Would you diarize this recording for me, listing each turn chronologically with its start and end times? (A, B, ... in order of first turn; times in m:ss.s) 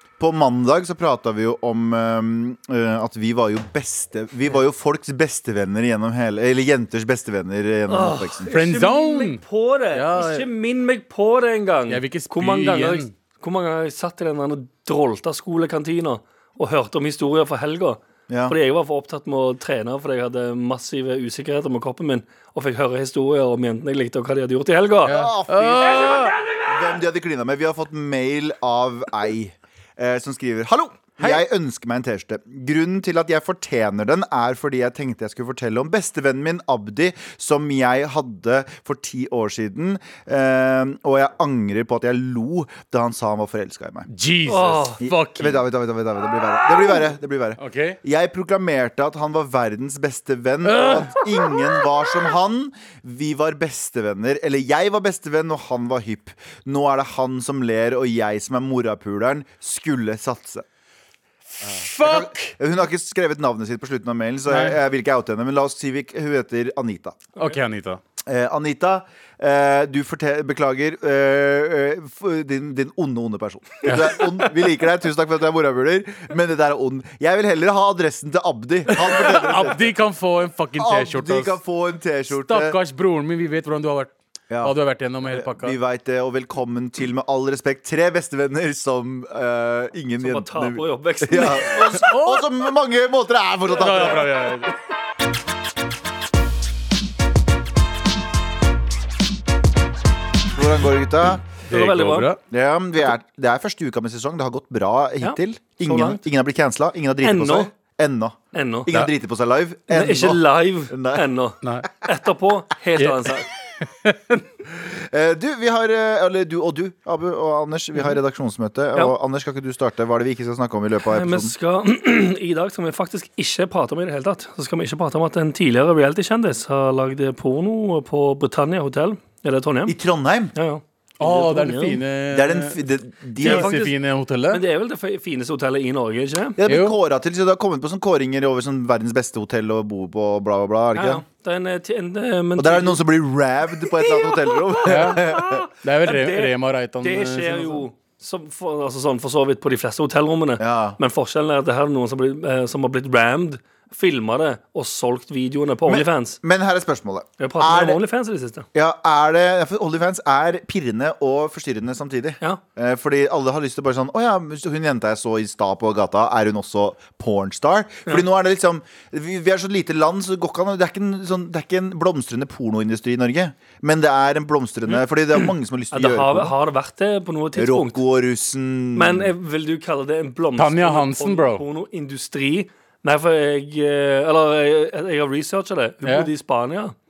0:00.2-0:08.5 A
0:07.9-0:25.2 B
0:08.5-0:09.4 C
0:09.9-0:10.4 C
0:11.9-0:13.1 C
0:18.3-0:18.6 A
0:25.0-0:26.6 C
0:25.0-0:44.1 A
0:44.1-0:45.6 C
0:44.5-0:45.0 B
0:45.0-1:00.6 A
0:47.6-0:48.0 C
0:50.6-0:51.8 C
1:01.5-1:02.5 C
1:01.6-1:07.2 A
1:04.5-1:04.8 C
1:07.4-1:08.0 C
1:08.2-1:19.9 A
1:13.8-1:14.2 C
1:18.9-1:21.6 C
1:20.8-1:22.8 A
1:22.4-1:25.7 C
1:25.2-1:34.3 A
1:30.2-1:32.0 B
1:31.8-1:32.6 C
1:33.7-1:34.8 C
1:40.5-1:41.4 A
1:41.7-1:42.3 B
1:41.7-1:42.4 C
1:42.5-1:51.2 A
1:45.2-1:46.2 B
1:47.2-1:47.7 B
1:48.5-1:48.9 B
1:49.9-1:53.5 B
1:51.6-1:51.9 C
1:53.0-1:54.4 C
1:54.7-2:01.5 A
2:01.1-2:10.0 B
2:09.9-2:10.5 A
2:10.5-2:12.0 B
2:11.2-2:12.8 C
2:12.3-2:13.7 A
2:13.4-2:14.6 C
2:13.4-2:13.9 B
2:14.5-2:16.6 B
2:16.6-2:21.2 A
2:16.6-2:17.0 C
2:20.9-2:23.0 B
2:22.6-2:25.6 A
2:23.9-2:36.4 B
2:24.8-2:25.2 C
2:25.8-2:27.8 C
2:30.6-2:31.0 A
2:35.8-2:38.0 A
2:37.4-2:38.6 B
2:38.7-2:56.5 A
2:55.9-2:58.0 B
2:57.6-2:59.3 A
2:58.9-3:06.9 B
3:00.6-3:01.6 C
3:06.0-3:06.3 C